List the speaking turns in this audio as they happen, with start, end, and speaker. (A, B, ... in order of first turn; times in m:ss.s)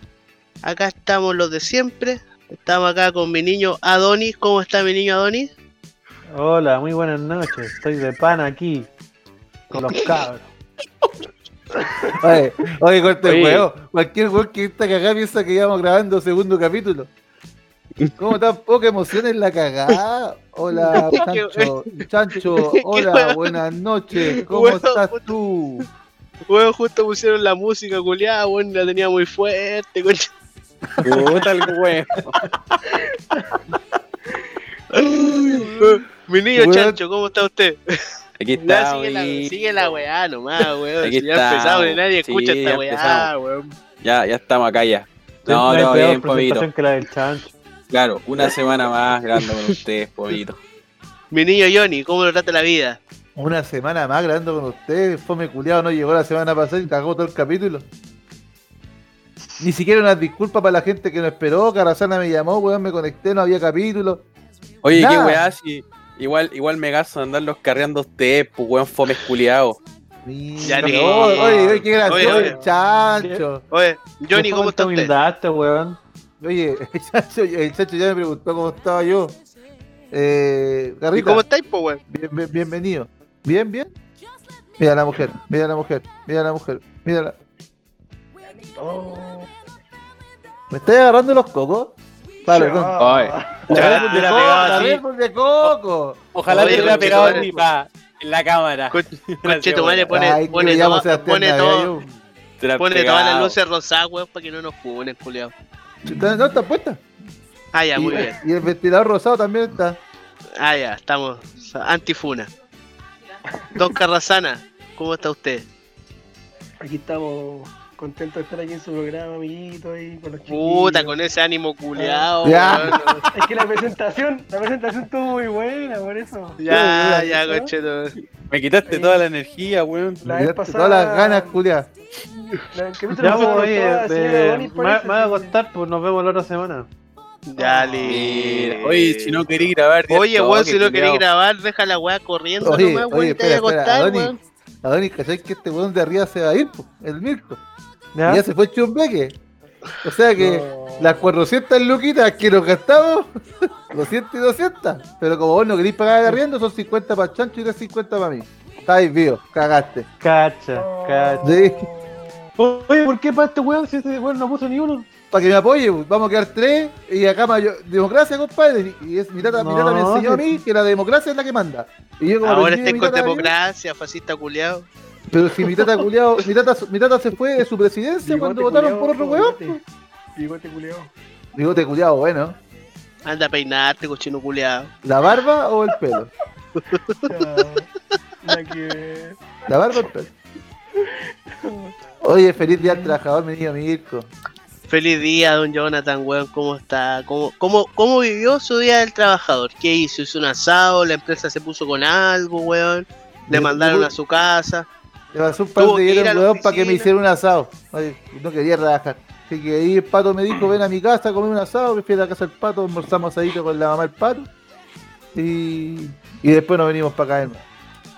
0:00.6-0:05.5 A
0:06.3-0:08.9 B
0:09.7-0:10.4 B
0:12.2-0:17.1 C
0:13.2-0:13.7 D
0:18.2-0:25.9 C
0:20.9-0:21.7 A
0:22.6-0:23.6 A
0:24.3-0:25.2 A
0:26.5-0:30.3 A
0:30.9-0:31.4 C
0:31.0-0:32.4 D
0:33.3-0:33.6 E
0:34.9-0:35.9 C
0:35.4-0:35.8 E
0:35.8-0:37.8 A
0:36.5-0:37.0 C
0:38.4-0:40.0 D
0:38.5-0:43.8 A
0:41.0-0:43.3 D
0:44.0-0:46.7 D
0:45.4-0:47.5 B
0:47.9-0:50.6 D
0:51.3-0:53.0 A
0:53.4-0:57.9 C
0:59.6-1:04.2 C
1:04.8-1:09.8 D
1:04.9-1:05.4 C
1:10.2-1:13.6 C
1:10.6-1:12.5 A
1:10.8-1:12.6 B
1:12.3-1:12.7 E
1:13.2-1:13.4 B
1:13.7-1:15.1 A
1:14.3-1:16.0 B
1:16.4-1:19.4 C
1:20.1-1:21.4 C
1:21.1-1:22.0 A
1:22.1-1:23.9 C
1:24.8-1:27.4 C
1:28.8-1:29.5 E
1:30.7-1:32.9 C
1:32.5-1:33.9 E
1:33.0-1:34.9 D
1:33.7-1:37.6 C
1:33.7-1:35.0 A
1:33.8-1:35.0 B
1:36.3-1:40.1 D
1:36.5-1:37.4 A
1:38.9-1:41.9 A
1:40.1-1:42.0 C
1:42.6-1:43.6 D
1:42.8-1:45.5 A
1:46.0-1:47.0 C
1:47.7-1:48.4 A
1:48.0-1:50.0 C
1:50.6-1:52.5 A
1:53.7-1:55.6 A
1:56.8-2:01.2 E
2:00.5-2:03.2 A
2:02.0-2:07.7 E
2:02.4-2:03.2 C
2:06.6-2:08.2 A
2:08.4-2:10.2 D
2:08.9-2:09.2 E
2:10.2-2:11.6 E
2:10.2-2:11.9 C
2:12.7-2:15.5 E
2:13.2-2:16.9 B
2:17.5-2:24.4 A
2:17.6-2:18.3 E
2:18.0-2:21.2 D
2:22.6-2:24.3 C
2:24.8-2:27.6 C
2:28.1-2:28.4 B
2:28.2-2:29.4 C
2:30.0-2:40.1 C
2:30.4-2:31.3 E
2:40.2-2:41.5 B
2:40.7-2:42.4 E
2:41.4-2:41.9 C
2:42.6-2:45.1 B
2:45.3-2:53.5 C
2:49.4-2:50.6 B
2:52.4-2:54.9 A
2:55.3-2:59.8 C
2:58.2-2:59.8 E
3:00.4-3:01.1 E
3:01.5-3:02.6 C
3:03.2-3:04.9 A
3:05.0-3:06.3 C
3:06.8-3:07.5 A
3:07.2-3:07.9 E
3:08.4-3:09.4 E
3:09.7-3:10.3 C
3:11.0-3:11.9 E
3:12.2-3:14.3 C
3:12.7-3:13.2 E
3:14.9-3:24.9 A
3:23.5-3:24.1 C
3:25.3-3:34.5 C
3:25.8-3:27.1 A
3:35.3-3:37.6 C